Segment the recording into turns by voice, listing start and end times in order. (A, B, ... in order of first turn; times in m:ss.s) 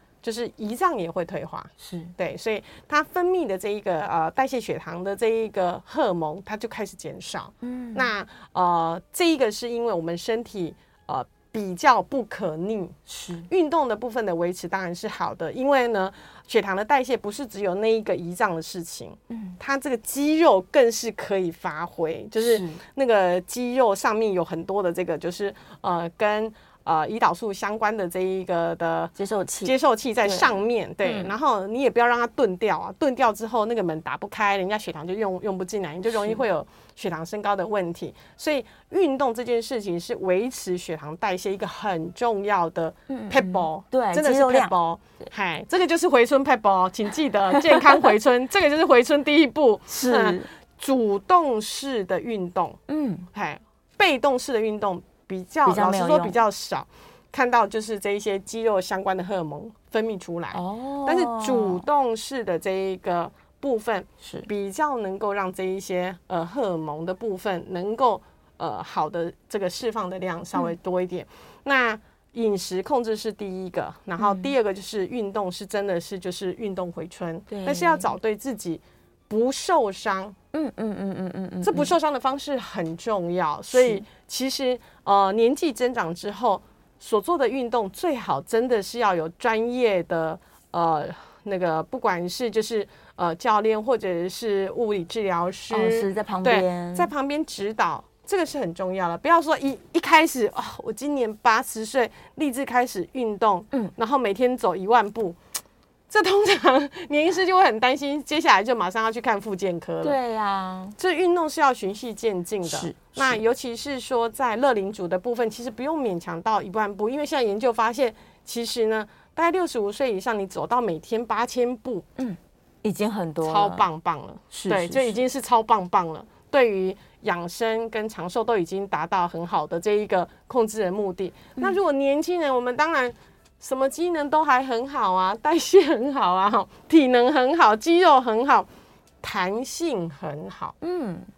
0:00.2-0:13.0 A
0:01.8-0:02.1 B
0:07.6-0:08.1 B
0:13.1-0:13.5 B
0:13.5-0:52.8 A
0:19.3-0:19.6 B
0:22.4-0:22.8 B
0:29.2-0:30.5 B
0:31.0-0:31.3 B
0:36.1-0:36.4 B
0:43.1-0:45.3 B
0:49.9-0:50.5 B
0:52.9-0:53.3 B
0:53.3-1:20.4 A
0:55.6-0:56.4 B
1:00.5-1:01.8 B
1:04.2-1:04.5 B
1:14.2-1:14.5 B
1:17.5-1:18.1 B
1:20.5-1:21.9 B
1:21.6-1:45.4 A
1:23.7-1:24.0 B
1:35.7-1:37.1 B
1:46.1-1:50.2 A
1:50.0-1:51.0 B
1:51.0-2:02.1 A
1:52.6-1:53.4 B
2:02.2-2:03.9 B
2:03.4-2:18.7 A
2:04.5-2:05.2 B
2:19.2-2:20.8 A
2:20.8-2:21.3 B